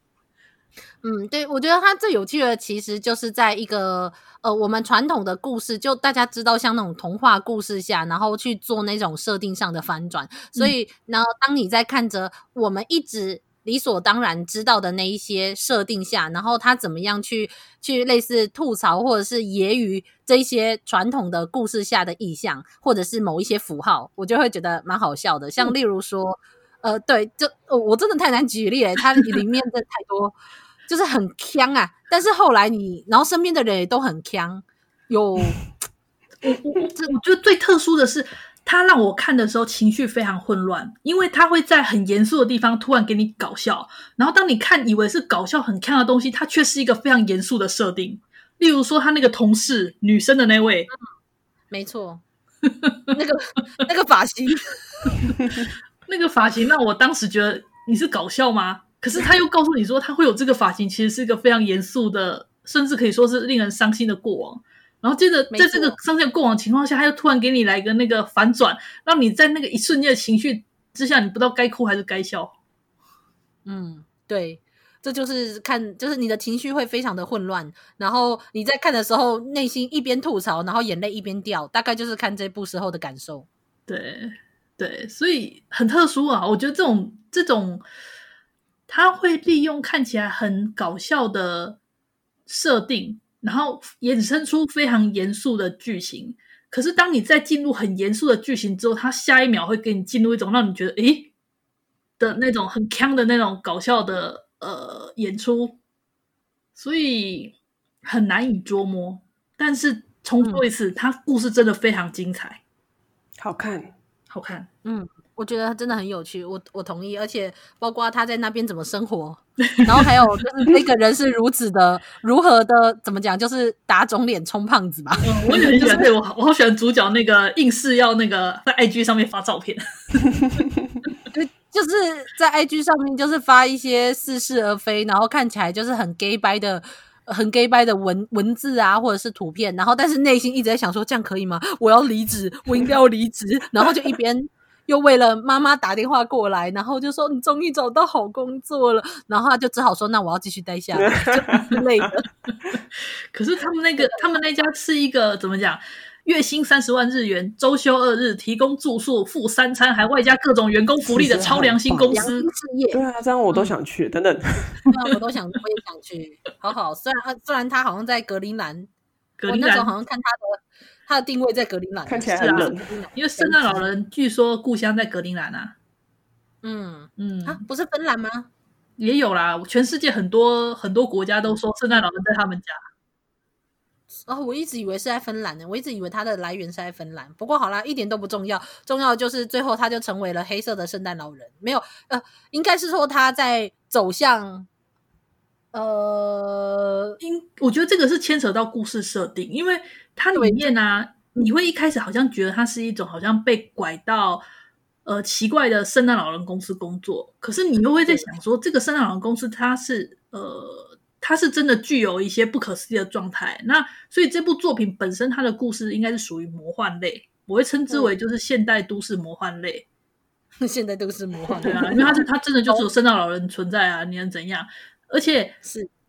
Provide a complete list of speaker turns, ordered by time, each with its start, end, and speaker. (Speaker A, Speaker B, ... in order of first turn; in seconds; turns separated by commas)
Speaker A: 1.0-30.3, Speaker A: 30.9-35.6, Speaker B: 36.4-50.9, Speaker A: 51.7-52.2, Speaker A: 53.1-54.7, Speaker B: 56.1-72.5, Speaker A: 65.5-66.0, Speaker A: 73.7-83.5, Speaker B: 83.9-87.8, Speaker B: 88.9-91.8, Speaker B: 92.5-101.3, Speaker B: 102.2-105.8, Speaker B: 106.8-112.6, Speaker C: 113.4-113.9, Speaker B: 114.3-114.7, Speaker A: 114.8-126.1, Speaker B: 119.8-120.0, Speaker B: 125.2-130.6, Speaker A: 131.3-152.2, Speaker C: 151.0-151.7, Speaker B: 153.3-162.5, Speaker C: 161.0-162.3, Speaker A: 162.1-163.0, Speaker C: 162.9-164.7, Speaker A: 164.9-168.9, Speaker B: 169.4-169.9, Speaker A: 169.5-173.9, Speaker C: 172.1-172.9, Speaker B: 172.4-175.7, Speaker A: 176.6-178.5, Speaker B: 177.2-177.6, Speaker B: 179.0-182.8, Speaker A: 184.3-194.7, Speaker A: 195.7-197.2, Speaker B: 197.2-204.4, Speaker A: 200.3-200.7, Speaker B: 205.0-219.8, Speaker A: 208.0-208.3, Speaker A: 217.9-218.1, Speaker A: 220.6-222.8, Speaker B: 221.6-225.6, Speaker A: 225.6-225.9